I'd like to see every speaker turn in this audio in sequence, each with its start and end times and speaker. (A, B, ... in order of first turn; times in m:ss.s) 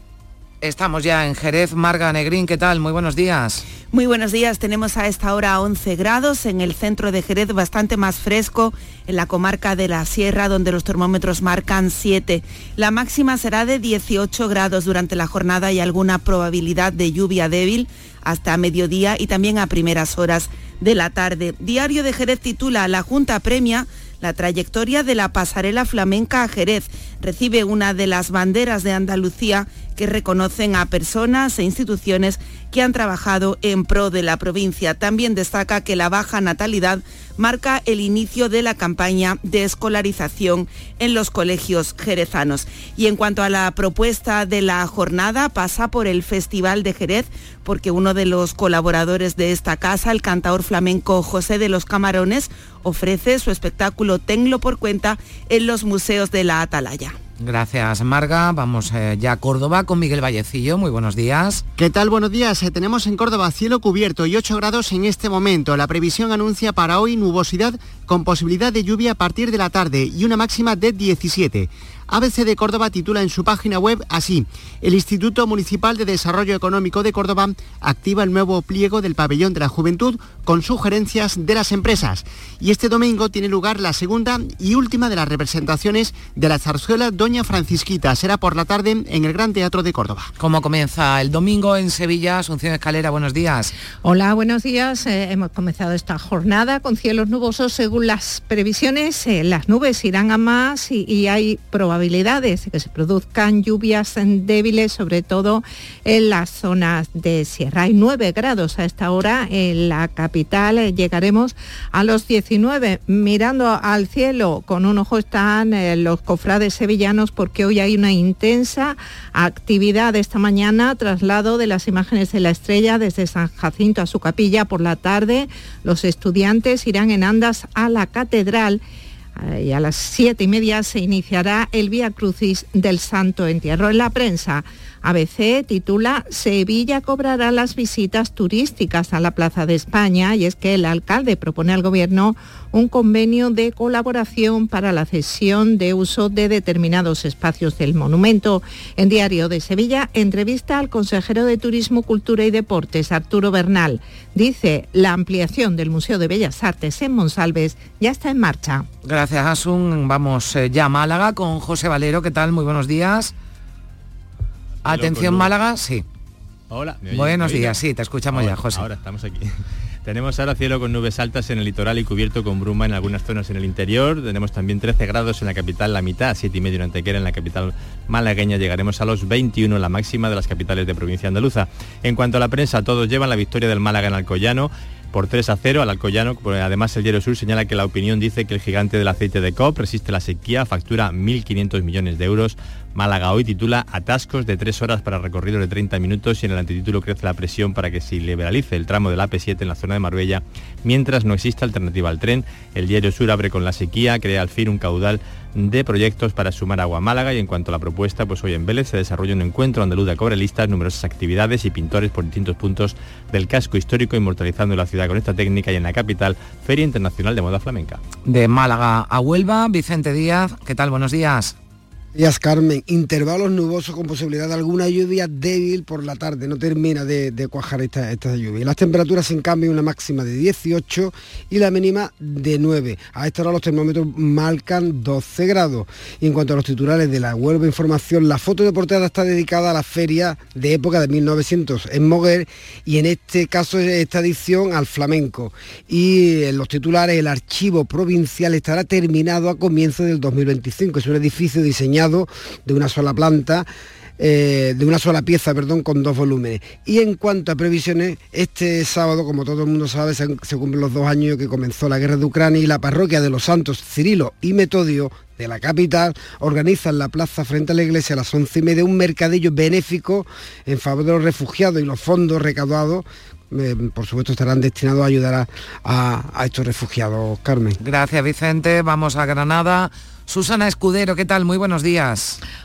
0:00.6-0:03.6 A
0:03.9-0:57.2 B
0:57.4-1:01.6 A
1:01.8-1:30.3 C
1:30.4-1:33.7 A
1:34.0-2:08.8 D
2:09.4-2:38.8 D
2:39.0-2:43.3 A
2:44.8-2:46.0 A
2:44.8-2:45.5 E
2:46.7-2:49.5 E
2:47.1-2:48.8 A
2:50.0-3:38.0 E
3:38.2-3:41.5 A
3:42.1-4:13.6 F
4:14.2-4:37.8 F
4:37.8-4:42.4 A